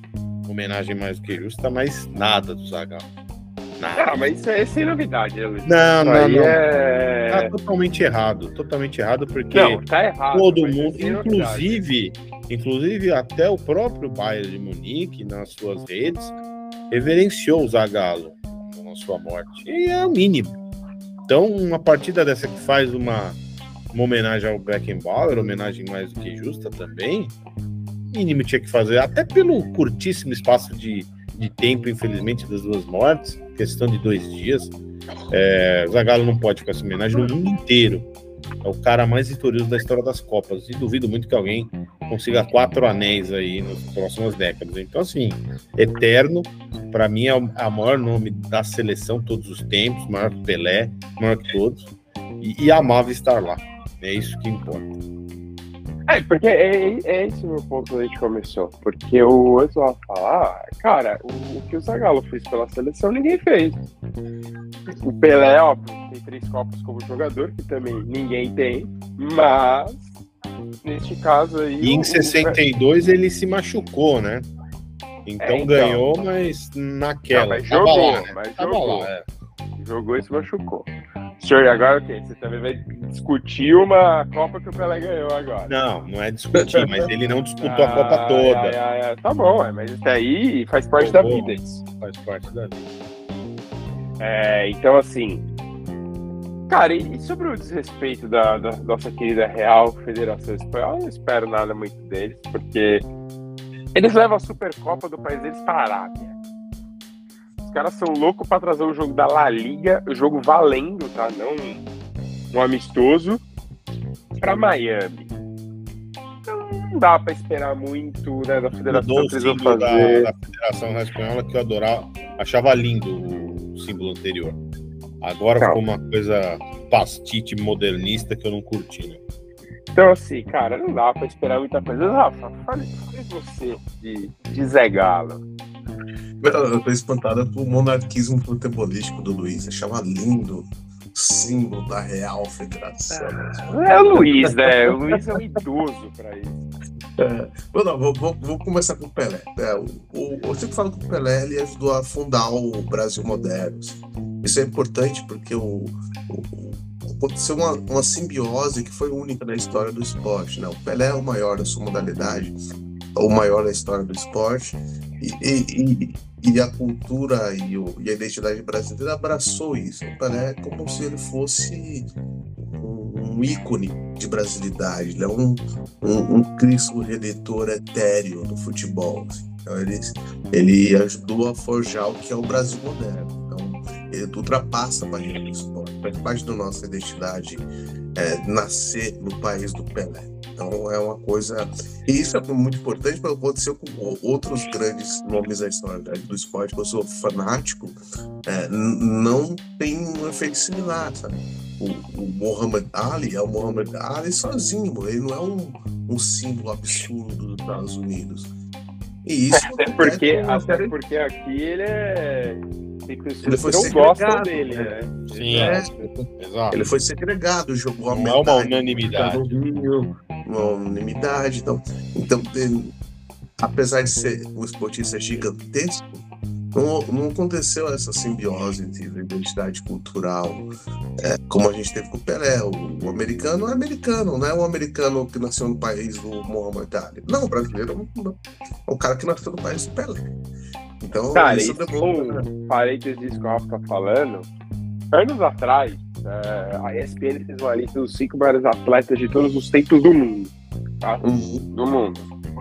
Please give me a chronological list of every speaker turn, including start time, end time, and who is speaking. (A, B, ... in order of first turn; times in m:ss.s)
0:00.5-0:03.0 A
0:03.8-0:04.2 A
0:04.0-0:07.5 B
0:05.6-0:06.6 A
0:07.3-0:09.8 A
0:09.5-0:11.8 B
0:10.3-0:16.3 A
0:16.9-0:20.5 A
0:21.3-0:23.4 A
0:23.9-0:27.3 A
0:28.1-0:34.7 A
0:35.3-0:38.1 A
0:38.6-0:55.0 A
0:56.1-1:03.8 B
1:05.0-1:10.1 B
1:10.8-1:12.6 B
1:11.8-1:14.5 A
1:15.3-1:19.2 A
1:15.4-1:16.2 B
1:17.3-1:19.1 B
1:19.8-1:20.9 B
1:21.4-1:25.7 B
1:25.7-1:28.8 A
1:26.5-1:27.1 C
1:27.6-1:31.8 B
1:31.0-1:32.9 A
1:34.2-1:35.4 B
1:36.7-1:43.0 B
1:43.9-1:46.3 B
1:47.6-1:51.8 B
1:52.5-1:53.4 B
1:54.4-1:55.3 B
1:56.5-2:00.3 B
1:58.9-2:04.6 A
2:05.2-2:09.2 A
2:09.9-2:15.4 B
2:16.4-2:25.2 C
2:23.1-2:26.6 B
2:27.2-2:42.6 C
2:43.1-3:28.5 C
3:29.2-3:30.9 C
3:29.5-3:36.0 B
3:33.4-3:42.9 C
3:35.3-3:35.8 A
3:36.4-3:36.8 A
3:38.1-3:39.5 A
3:43.6-3:50.7 C
3:51.2-4:00.2 C
4:01.0-4:02.5 C
4:01.3-4:04.5 B
4:05.1-4:10.5 B
4:11.0-4:12.2 B
4:11.2-4:11.7 C